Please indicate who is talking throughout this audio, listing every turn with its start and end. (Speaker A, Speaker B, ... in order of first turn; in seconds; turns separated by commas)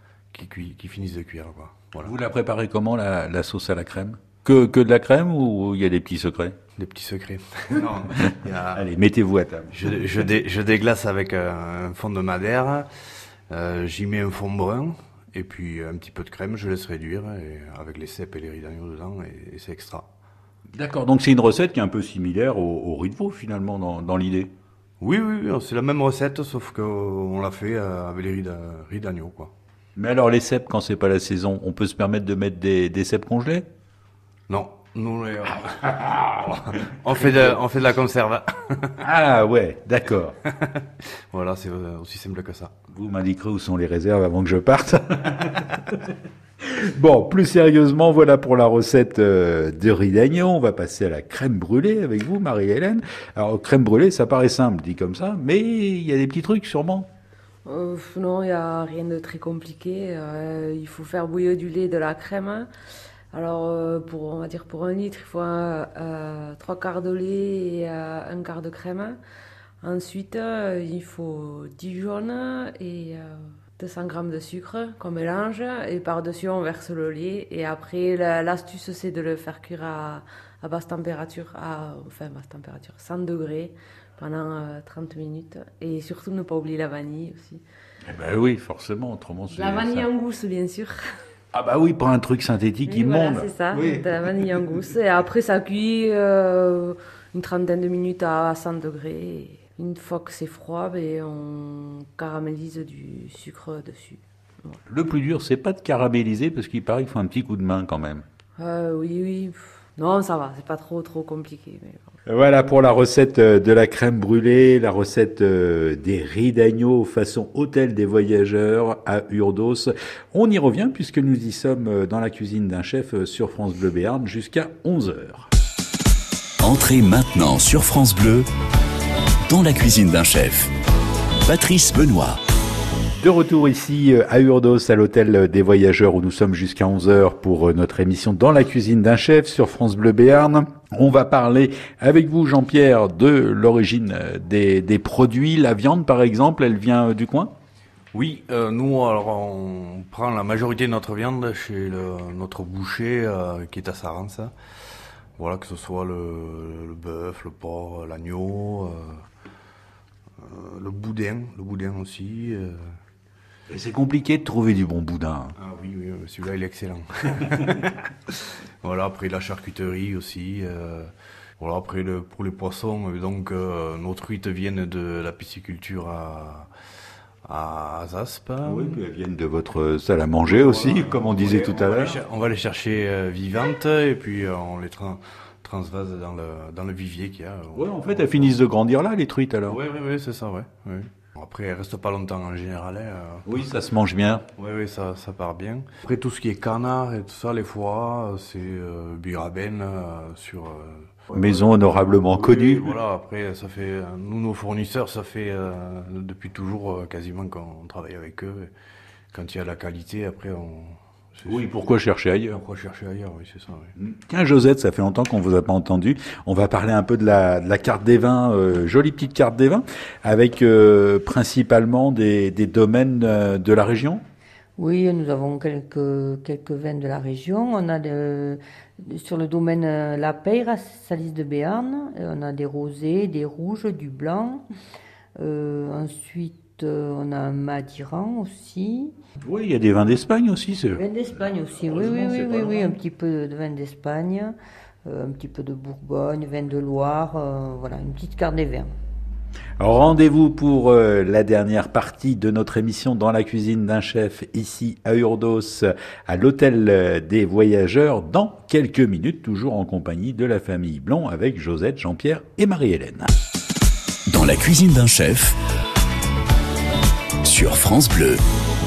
Speaker A: 0.3-2.1, Speaker B: 2.0-6.5, Speaker A: 6.8-8.8, Speaker B: 8.7-9.7, Speaker A: 9.7-12.9, Speaker A: 13.5-20.0, Speaker B: 20.7-24.5, Speaker A: 25.0-29.5, Speaker B: 29.9-33.6, Speaker A: 34.5-39.0, Speaker B: 39.0-40.4, Speaker A: 40.5-42.7, Speaker B: 42.9-57.1, Speaker C: 57.6-62.7, Speaker C: 63.3-69.2, Speaker C: 69.8-87.6, Speaker B: 88.0-90.1, Speaker C: 89.5-91.1, Speaker B: 91.5-94.7, Speaker C: 92.8-104.8, Speaker B: 104.9-108.2, Speaker C: 108.6-112.1, Speaker B: 112.2-125.5, Speaker D: 126.6-128.5, Speaker D: 129.4-130.7, Speaker D: 131.4-132.4, Speaker B: 133.2-147.5, Speaker A: 148.1-154.5, Speaker A: 155.4-159.2, Speaker A: 160.4-162.8, Speaker B: 163.7-165.5, Speaker A: 165.6-176.7, Speaker A: 177.4-179.0, Speaker B: 178.6-182.2, Speaker A: 180.4-188.5, Speaker B: 187.7-189.8, Speaker A: 189.7-193.4, Speaker B: 193.4-194.4, Speaker A: 194.6-208.7, Speaker B: 201.3-202.9, Speaker A: 209.3-211.7, Speaker B: 211.4-212.6, Speaker A: 212.5-213.9, Speaker B: 214.0-224.2, Speaker E: 224.8-234.6, Speaker E: 235.4-239.1, Speaker B: 239.4-241.0, Speaker E: 240.9-244.5, Speaker B: 241.8-243.0, Speaker E: 245.0-248.9, Speaker B: 249.8-263.3, Speaker D: 264.3-265.6, Speaker D: 267.4-268.4